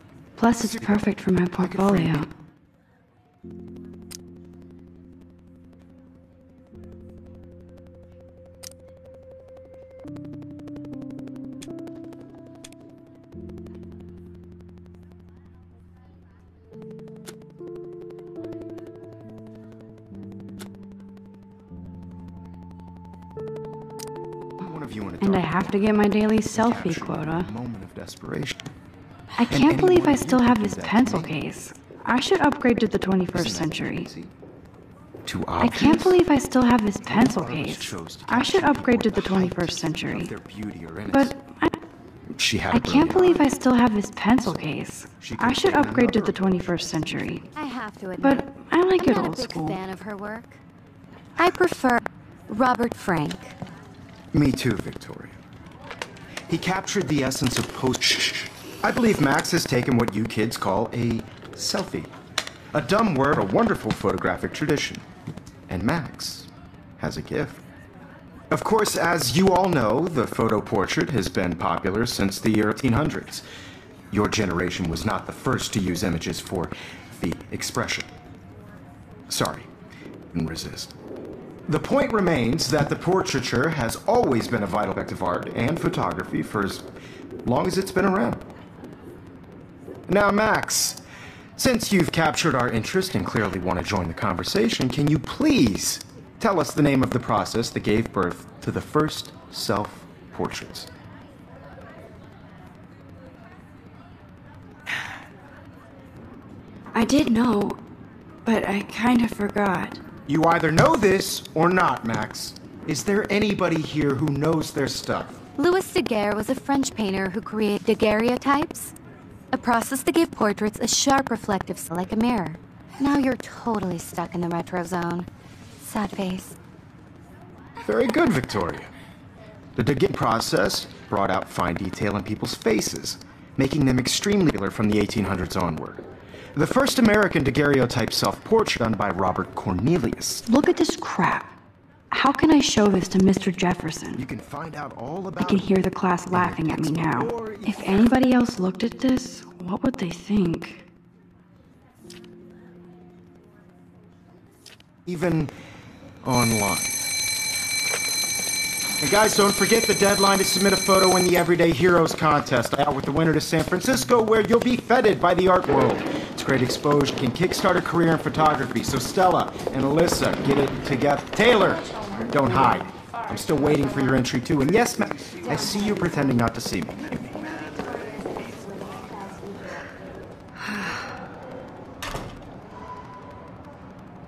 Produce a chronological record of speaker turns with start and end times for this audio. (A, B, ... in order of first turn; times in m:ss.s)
0:00.4-0:02.3 A
0:00.5-0:02.3 B
0:24.6-0:26.0 B
0:25.2-0:27.5 A
0:26.5-0:28.6 B
0:29.4-0:34.1 A
0:29.5-0:31.3 B
0:33.3-0:34.3 B
0:35.2-0:36.2 B
0:35.6-0:40.3 A
0:37.0-0:41.4 B
0:41.1-0:41.8 A
0:42.3-0:43.5 B
0:42.7-0:47.4 A
0:44.4-0:44.7 B
0:45.2-0:47.4 B
0:47.6-0:50.6 C
0:48.2-0:49.8 A
0:51.4-0:53.6 C
0:54.3-0:55.4 B
0:56.5-1:02.1 B
1:02.7-1:05.0 B
1:05.7-1:07.6 B
1:08.5-1:13.4 B
1:14.1-1:18.1 B
1:19.3-1:19.7 B
1:20.3-1:20.9 B
1:21.7-1:26.9 B
1:27.4-1:28.4 B
1:30.1-1:31.0 B
1:31.6-1:40.9 B
1:46.9-1:47.8 A
1:48.4-1:50.0 A
1:50.3-1:55.4 B
1:55.6-1:58.9 C
1:59.5-2:05.3 C
2:05.8-2:06.6 C
2:07.8-2:08.9 B
2:09.8-2:20.4 B
2:20.5-2:21.6 A
2:22.1-2:24.2 A
2:24.2-2:25.7 B
2:25.4-2:30.8 A
2:26.3-2:28.1 B
2:35.1-2:35.5 B
2:36.2-2:37.0 B
2:39.0-2:58.0 B